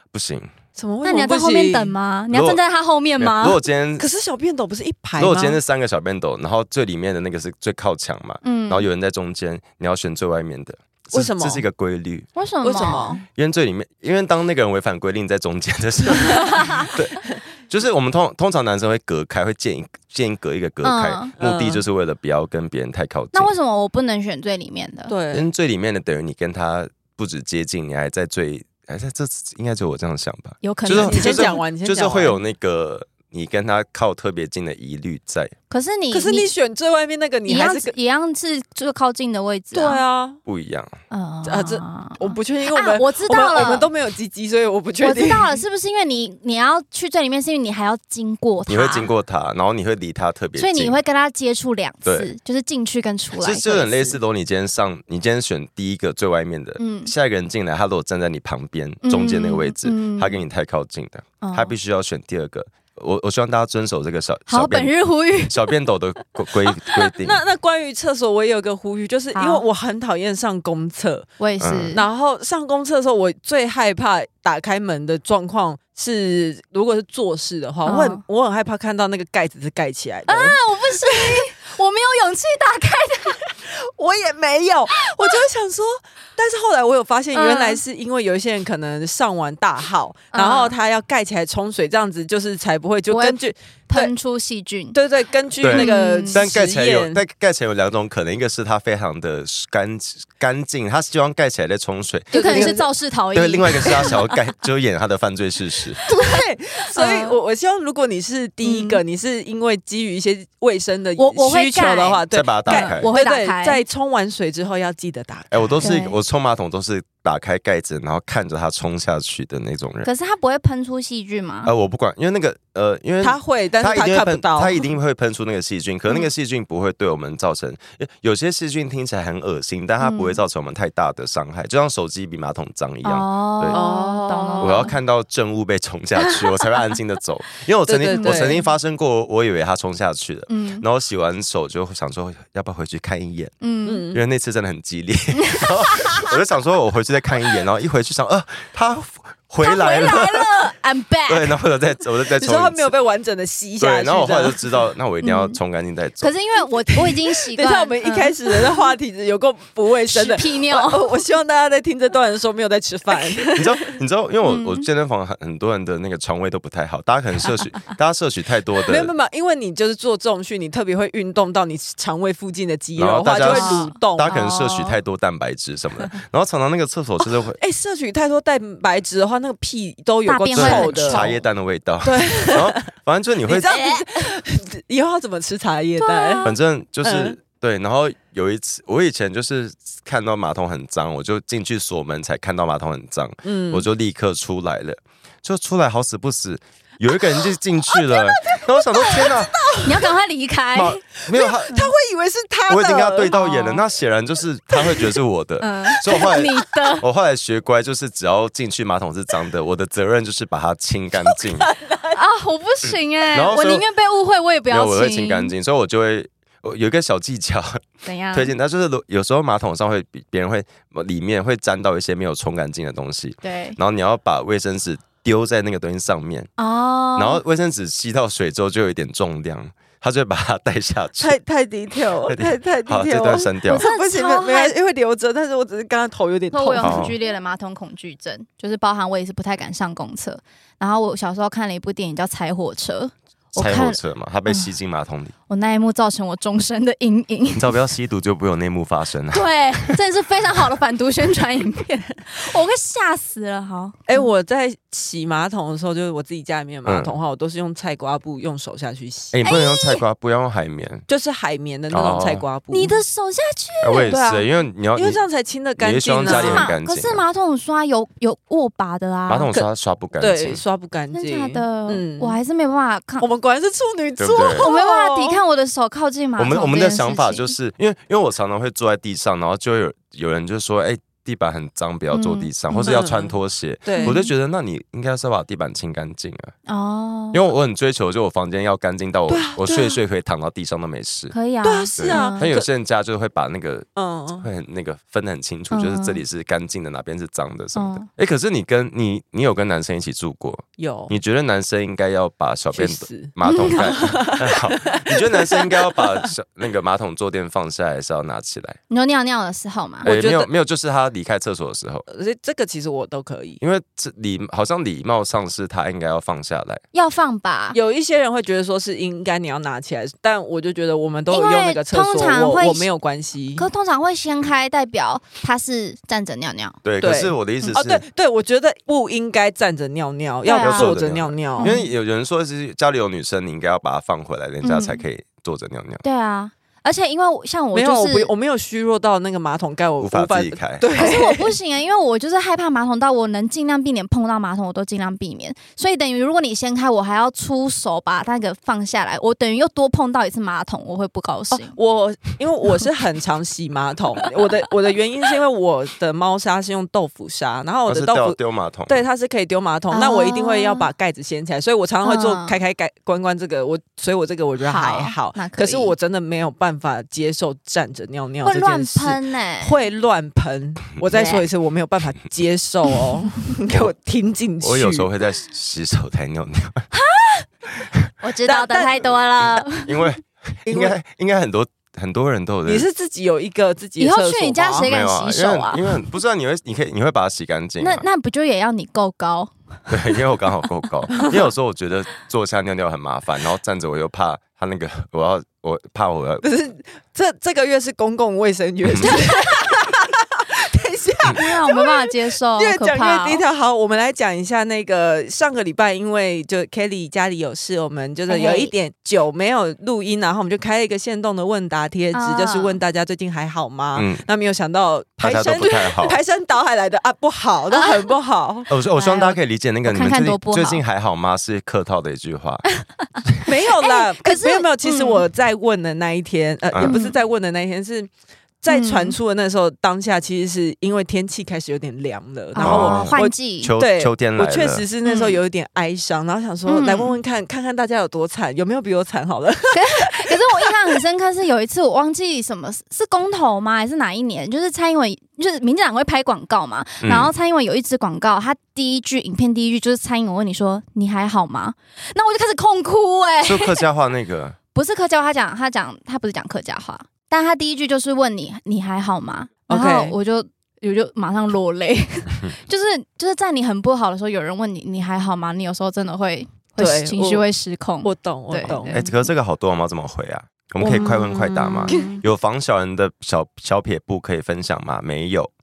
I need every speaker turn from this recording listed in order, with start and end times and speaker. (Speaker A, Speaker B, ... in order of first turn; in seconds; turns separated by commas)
Speaker A: 0.1-0.5, Speaker B: 0.7-1.9, Speaker C: 1.0-3.6, Speaker A: 2.3-2.6, Speaker A: 3.2-4.0, Speaker B: 4.0-5.6, Speaker A: 5.2-12.3, Speaker C: 8.4-8.8, Speaker B: 11.1-11.6, Speaker C: 12.3-13.2, Speaker B: 12.6-13.2, Speaker A: 13.3-23.5, Speaker C: 16.5-16.8, Speaker C: 20.8-21.3, Speaker B: 21.4-21.8, Speaker C: 23.3-25.1, Speaker B: 25.1-25.5, Speaker A: 25.3-35.5, Speaker C: 30.6-31.6, Speaker B: 30.9-32.4, Speaker C: 35.7-36.5, Speaker B: 36.1-37.9, Speaker C: 37.5-40.0, Speaker B: 39.7-40.4, Speaker A: 40.5-40.9, Speaker C: 41.1-43.9, Speaker B: 41.5-45.6, Speaker C: 45.0-49.1, Speaker A: 48.7-51.0, Speaker C: 50.5-54.2, Speaker A: 52.0-52.3, Speaker A: 53.4-67.4, Speaker C: 56.8-57.1, Speaker C: 59.0-60.4, Speaker C: 61.4-61.7, Speaker C: 64.5-65.7, Speaker B: 66.8-71.3, Speaker C: 69.3-69.6, Speaker C: 71.4-72.0, Speaker A: 71.6-71.9, Speaker B: 71.9-81.5, Speaker C: 77.8-78.2, Speaker C: 80.3-83.5, Speaker B: 83.6-94.1, Speaker C: 85.0-85.3, Speaker C: 87.3-87.8, Speaker C: 90.3-90.7, Speaker C: 93.1-95.0, Speaker B: 94.9-97.2, Speaker A: 95.6-106.0, Speaker C: 95.7-96.4, Speaker B: 102.3-102.8, Speaker C: 102.3-104.2, Speaker B: 106.0-115.9, Speaker C: 106.9-107.4, Speaker C: 108.6-109.0, Speaker C: 111.2-113.8, Speaker A: 112.3-113.1, Speaker A: 115.5-120.1, Speaker C: 115.8-116.2, Speaker C: 120.0-121.7, Speaker A: 121.6-133.8, Speaker B: 123.2-124.8, Speaker C: 130.0-130.4, Speaker C: 133.0-134.9, Speaker B: 133.7-134.9, Speaker A: 134.6-143.5, Speaker B: 137.9-138.6, Speaker C: 138.1-138.6, Speaker C: 140.5-140.8, Speaker C: 143.6-144.1, Speaker B: 143.8-144.2, Speaker A: 144.1-150.5, Speaker C: 145.5-146.3, Speaker C: 149.6-151.5, Speaker A: 151.3-152.9, Speaker B: 152.3-154.7, Speaker A: 153.8-156.3, Speaker C: 155.2-155.6, Speaker C: 156.2-158.9, Speaker B: 156.9-163.9, Speaker C: 160.1-161.2, Speaker A: 163.5-169.1, Speaker C: 164.4-164.8, Speaker B: 168.9-174.3, Speaker A: 173.0-177.6, Speaker C: 173.4-175.0, Speaker B: 177.6-181.3, Speaker C: 180.3-181.4, Speaker A: 180.5-183.7, Speaker B: 182.0-182.9, Speaker B: 183.5-187.4, Speaker C: 183.6-184.3, Speaker C: 186.0-186.5, Speaker A: 186.4-199.6, Speaker B: 193.4-193.8, Speaker B: 197.9-200.1, Speaker C: 199.8-201.0, Speaker A: 200.7-201.9, Speaker B: 201.3-203.6, Speaker A: 202.7-211.7, Speaker C: 203.3-203.8, Speaker B: 204.7-205.0, Speaker C: 205.6-207.0, Speaker B: 211.3-212.2, Speaker C: 212.1-215.5, Speaker A: 213.3-213.8, Speaker A: 214.7-226.5, Speaker C: 218.0-218.5, Speaker C: 223.4-223.8, Speaker C: 226.6-227.4, Speaker A: 227.2-231.4, Speaker B: 231.2-237.0, Speaker A: 232.2-233.8, Speaker C: 233.7-234.7, Speaker C: 236.5-244.7, Speaker A: 236.8-237.2, Speaker A: 243.6-245.3, Speaker C: 245.5-247.7, Speaker A: 247.5-250.0, Speaker C: 249.3-254.3, Speaker B: 254.1-259.4, Speaker A: 256.8-257.1, Speaker A: 259.3-261.1, Speaker C: 259.4-260.0, Speaker B: 261.1-263.0, Speaker A: 261.9-262.4, Speaker C: 262.7-264.1, Speaker A: 263.8-265.2, Speaker B: 264.0-266.7, Speaker A: 265.8-267.2, Speaker C: 266.2-269.5, Speaker A: 269.3-270.6, Speaker B: 269.5-272.4, Speaker C: 271.1-273.2, Speaker B: 273.2-275.4, Speaker A: 274.2-274.7, Speaker C: 274.5-277.5, Speaker A: 276.4-286.5, Speaker C: 282.1-283.0, Speaker B: 282.8-283.3, Speaker B: 283.9-284.2, Speaker C: 284.0-284.3, Speaker C: 286.7-287.5, Speaker A: 287.3-291.3, Speaker B: 289.3-290.0, Speaker C: 291.3-292.5, Speaker B: 291.6-292.7, Speaker A: 292.0-293.9, Speaker B: 293.9-294.5, Speaker A: 294.4-308.8, Speaker C: 295.7-296.2, Speaker C: 297.7-298.1, Speaker B: 300.8-301.1, Speaker B: 302.7-306.2, Speaker C: 303.4-303.8, Speaker C: 308.9-310.1, Speaker B: 310.0-310.5, Speaker A: 310.0-312.0, Speaker B: 312.1-313.6, Speaker A: 313.6-316.8, Speaker C: 316.9-317.8, Speaker B: 317.7-323.6, Speaker C: 321.3-322.9, Speaker C: 323.6-326.8, Speaker A: 326.8-328.0, Speaker B: 327.0-331.7, Speaker C: 330.4-331.0, Speaker A: 330.6-336.0, Speaker C: 331.6-331.9, Speaker C: 334.6-335.0, Speaker C: 336.0-338.3, Speaker B: 337.7-341.5, Speaker A: 340.0-341.2, Speaker C: 340.9-351.7, Speaker B: 351.5-375.1, Speaker A: 357.9-359.0, Speaker C: 359.9-360.9, Speaker C: 362.0-362.6, Speaker C: 364.6-365.9, Speaker C: 368.4-369.8, Speaker C: 371.1-371.4, Speaker A: 374.6-376.9, Speaker C: 376.9-377.4, Speaker C: 378.2-380.2, Speaker B: 378.4-379.6, Speaker A: 379.8-382.9, Speaker B: 380.7-380.9, Speaker B: 382.6-384.9, Speaker C: 384.0-386.0, Speaker A: 384.8-388.0, Speaker C: 387.8-389.5, Speaker A: 389.9-396.4, Speaker B: 396.4-418.7, Speaker C: 399.0-399.7, Speaker C: 401.3-403.4, Speaker C: 408.3-408.7, Speaker C: 412.1-412.8, Speaker A: 413.9-414.2, Speaker A: 415.2-416.2, Speaker A: 418.7-422.6, Speaker C: 418.9-420.8, Speaker B: 423.4-441.0, Speaker C: 423.8-425.2, Speaker C: 426.8-427.2, Speaker C: 428.7-429.1, Speaker C: 432.5-433.8, Speaker A: 432.6-434.8, Speaker C: 435.0-435.4, Speaker C: 436.7-437.1, Speaker C: 439.7-453.8, Speaker A: 447.0-447.3, Speaker A: 453.4-454.6, Speaker C: 454.7-469.1, Speaker B: 459.7-460.1, Speaker B: 466.8-467.4, Speaker B: 468.0-469.0, Speaker A: 468.9-475.5, Speaker B: 470.8-472.2, Speaker C: 471.9-472.2